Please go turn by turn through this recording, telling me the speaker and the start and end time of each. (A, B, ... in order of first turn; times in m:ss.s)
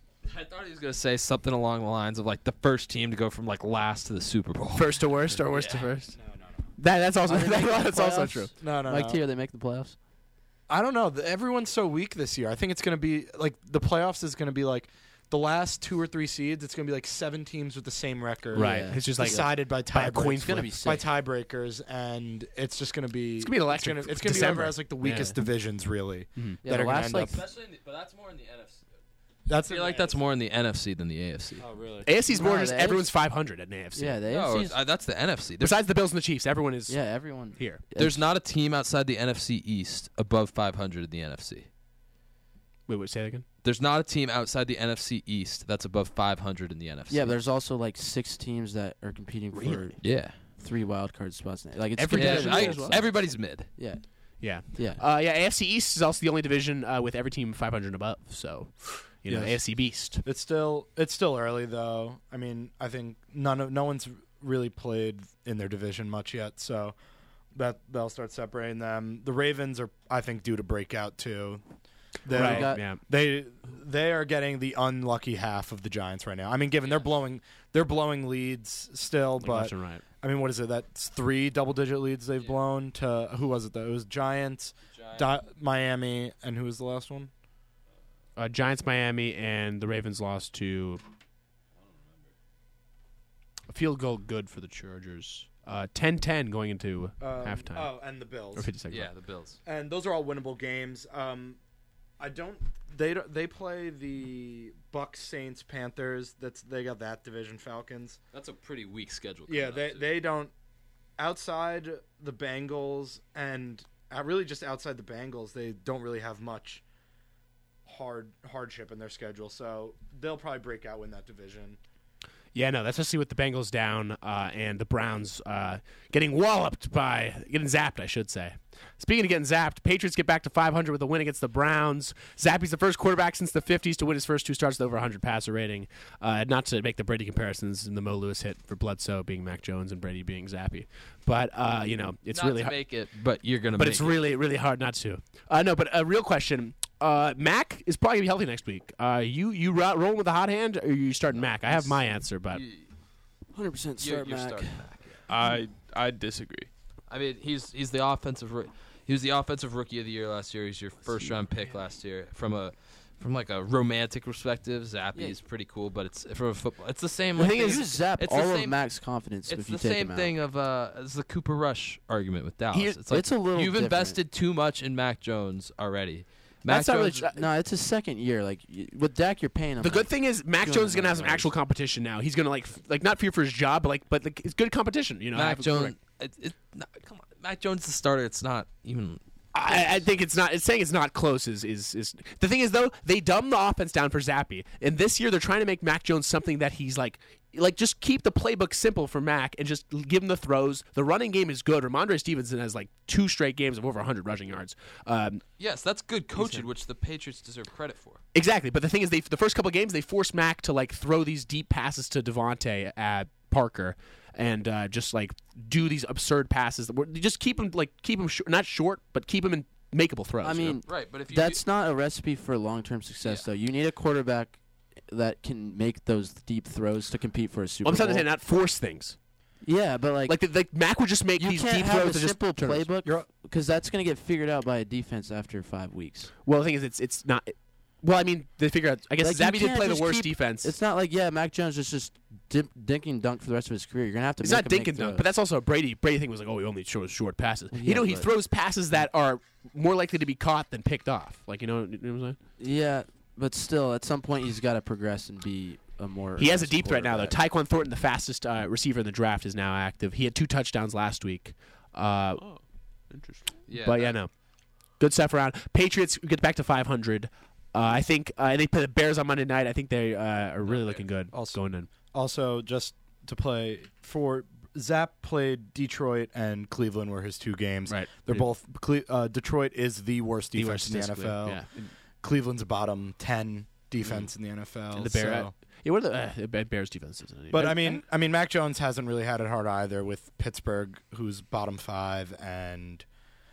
0:00.2-0:05.9 A
0:04.8-0:06.2 B
0:06.2-0:06.6 C
0:06.8-0:08.5 B
0:07.3-0:10.0 D
0:08.6-0:09.2 C
0:10.7-0:27.4 C
0:18.5-0:19.5 D
0:18.5-0:20.8 B
0:20.1-0:21.0 D
0:23.4-0:25.4 B
0:26.6-0:27.4 D
0:27.1-0:28.9 A
0:29.5-0:30.2 C
0:29.6-0:31.7 A
0:31.6-0:32.1 C
0:32.1-0:34.2 B
0:32.3-0:33.1 D
0:34.0-0:34.8 D
0:34.3-0:35.8 A
0:35.6-0:37.8 B
0:36.9-0:38.2 D
0:38.0-0:41.7 A
0:42.9-0:43.4 B
0:43.6-0:47.4 A
0:47.1-0:55.0 D
0:50.0-0:50.4 A
0:52.0-0:53.0 B
0:52.1-0:53.7 A
0:54.4-1:00.2 B
0:59.3-1:07.0 C
1:07.5-1:11.6 C
1:12.2-1:27.3 C
1:12.3-1:13.0 B
1:12.3-1:12.8 D
1:16.8-1:17.2 A
1:19.4-1:20.0 B
1:22.4-1:22.6 A
1:24.9-1:25.3 A
1:28.4-1:31.0 B
1:33.7-1:37.9 B
1:37.2-1:38.7 C
1:38.6-1:39.1 B
1:38.9-1:39.6 A
1:39.6-1:41.6 C
1:42.2-1:48.2 C
1:48.3-1:50.1 A
1:49.5-1:50.5 C
1:51.2-1:56.8 C
1:57.9-2:01.8 C
2:02.5-2:22.8 B
2:22.3-2:24.2 A
2:23.8-2:32.6 B
2:31.6-2:32.0 A
2:32.5-2:32.9 A
2:33.5-2:35.1 D
2:34.0-2:35.2 A
2:35.3-2:36.7 E
2:37.1-2:48.8 A
2:47.4-2:50.3 D
2:49.5-2:57.3 A
2:52.7-2:53.0 B
2:53.1-2:54.2 D
2:56.7-2:57.4 B
2:57.3-3:01.5 D
2:59.8-3:06.0 B
3:05.3-3:09.9 A
3:09.5-3:25.4 B
3:25.6-3:28.2 A
3:26.4-3:26.7 B
3:28.3-3:40.8 B
3:40.4-3:48.3 D
3:40.9-3:41.6 A
3:47.8-3:49.2 B
3:49.6-3:50.4 D
3:50.3-3:52.9 B
3:51.4-3:56.3 D
3:56.4-4:00.7 B
3:59.2-4:05.3 D
4:04.4-4:12.4 B
4:07.7-4:08.3 D
4:12.6-4:17.4 D
4:16.4-4:22.4 B
4:22.4-4:23.6 E
4:23.7-4:24.2 A
4:23.8-4:24.3 B
4:25.0-4:31.9 B
4:30.7-4:31.0 A
4:31.3-4:45.5 C
4:37.9-4:38.5 B
4:40.5-4:41.9 B
4:44.9-4:48.0 B
4:47.5-4:53.0 C